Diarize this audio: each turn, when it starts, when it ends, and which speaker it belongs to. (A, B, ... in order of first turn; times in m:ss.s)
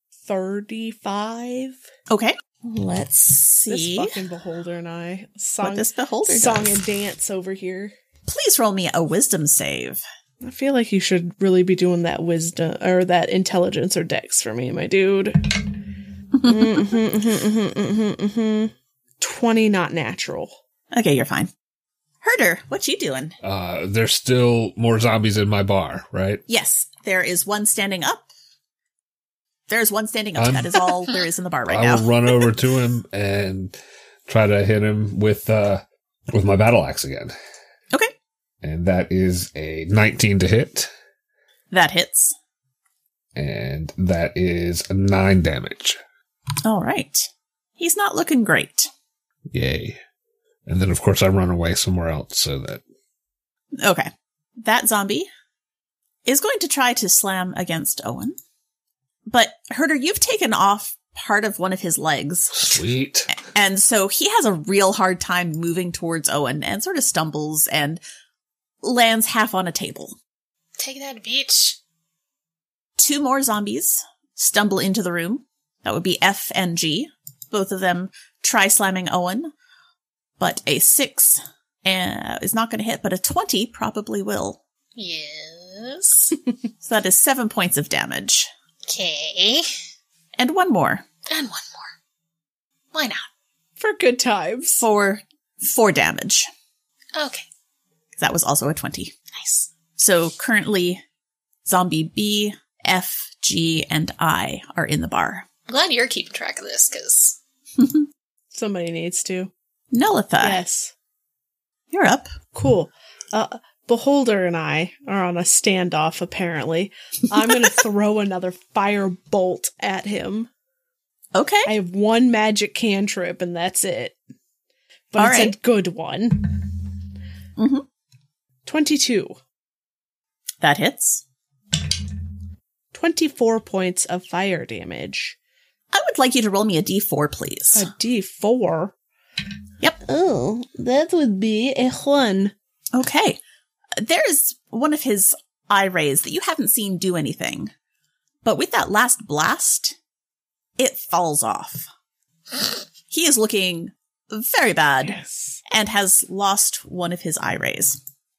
0:00.2-0:01.8 A
0:02.1-0:02.4 B
0:02.6-0:07.9 A
0:03.6-0:04.2 B
0:05.6-0:06.8 B
0:08.3-0:10.0 B
0:10.4-0:15.8 A
0:16.4-0:20.5 A
0:16.5-0:16.8 B
0:20.9-0:21.5 B
0:22.2-0:23.4 B
0:23.4-0:26.4 C
0:26.5-0:28.3 B
0:29.7-0:32.1 B
0:30.4-0:30.9 C
0:31.7-0:37.3 C
0:38.6-0:40.9 C
0:41.7-0:42.3 B
0:43.4-0:46.0 C
0:46.6-0:48.9 B
0:49.5-0:50.0 C
0:50.7-0:52.8 C
0:53.8-0:55.3 B
0:56.2-0:58.4 B
0:59.3-1:08.0 B
1:02.5-1:03.3 C
1:08.8-1:10.2 B
1:10.8-1:11.8 D
1:13.0-1:19.5 B
1:20.4-1:24.6 B
1:25.0-1:26.4 D
1:26.8-1:28.5 B
1:28.9-1:29.7 D
1:30.4-1:31.0 B
1:31.3-1:31.9 D
1:32.9-1:33.2 D
1:33.8-1:34.8 A
1:34.8-1:36.5 B
1:37.1-1:37.4 D
1:38.2-1:39.1 B
1:39.3-1:39.7 D
1:40.0-1:41.0 B
1:41.6-1:45.5 B
1:45.7-1:47.4 D
1:47.8-1:48.0 B
1:48.5-1:49.5 A
1:49.9-1:50.6 B
1:50.4-1:50.9 A
1:51.9-1:52.3 B
1:52.5-2:00.5 A
2:01.3-2:01.7 B
2:01.6-2:04.2 A
2:05.1-2:06.7 A
2:05.2-2:05.5 B
2:07.6-2:07.8 B
2:08.6-2:09.4 A
2:10.6-2:11.2 B
2:12.9-2:15.4 A
2:15.9-2:17.9 B
2:17.7-2:18.9 A
2:20.0-2:22.5 A
2:22.9-2:23.4 B
2:24.0-2:27.7 B
2:28.4-2:30.0 B
2:30.8-2:31.9 B
2:33.1-2:38.0 B
2:35.0-2:35.6 A